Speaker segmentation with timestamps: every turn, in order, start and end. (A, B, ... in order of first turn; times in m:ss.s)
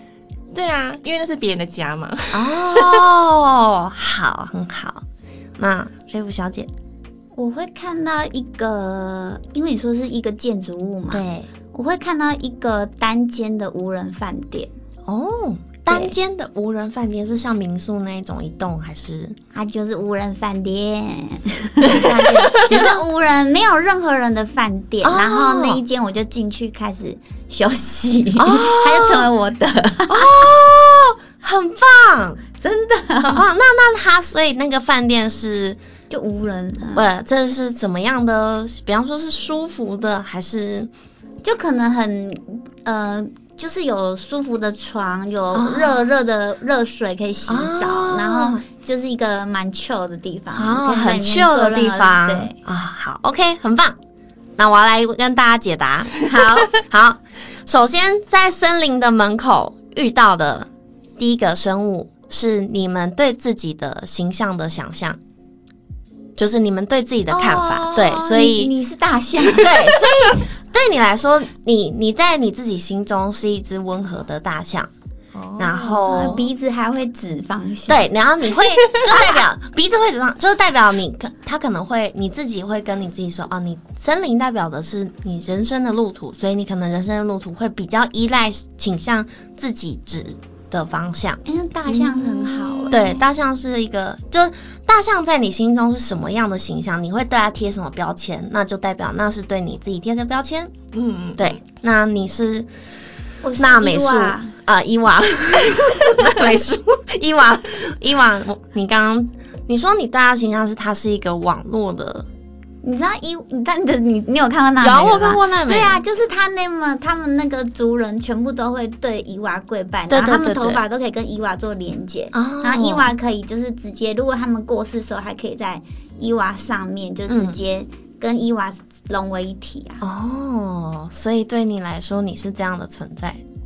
0:00.5-0:03.1 A
0:02.3-0:05.0 B
0:05.6-0:06.7 B
0:07.4-0:14.7 C
0:11.1-0:11.5 B
0:15.1-0:19.4 B
0:19.5-0:30.3 C
0:21.9-0:23.0 B
0:25.0-0:25.8 B
0:28.4-0:29.3 B
0:30.1-0:32.4 B
0:32.6-0:33.4 C
0:33.2-0:35.8 B
0:36.1-0:37.1 C
0:37.0-0:40.9 B
0:41.4-0:52.6 C
0:45.5-0:46.1 B
0:47.5-0:48.6 B
0:50.6-0:54.0 B
0:54.6-1:05.2 B
0:56.3-0:56.7 C
1:06.4-1:08.7 B
1:07.3-1:10.3 C
1:09.5-1:14.9 B
1:15.3-1:16.4 A
1:15.6-1:16.5 B
1:16.1-1:18.1 C
1:17.9-1:31.4 B
1:19.1-1:19.4 C
1:31.4-1:33.2 C
1:31.9-1:33.1 A
1:32.9-1:40.7 B
1:40.9-1:41.6 A
1:41.4-1:42.7 B
1:43.4-1:44.5 C
1:43.6-1:52.3 B
1:52.8-2:10.0 C
1:54.8-1:56.0 B
2:00.1-2:00.8 B
2:02.3-2:03.1 B
2:07.3-2:07.6 B
2:10.0-2:13.4 B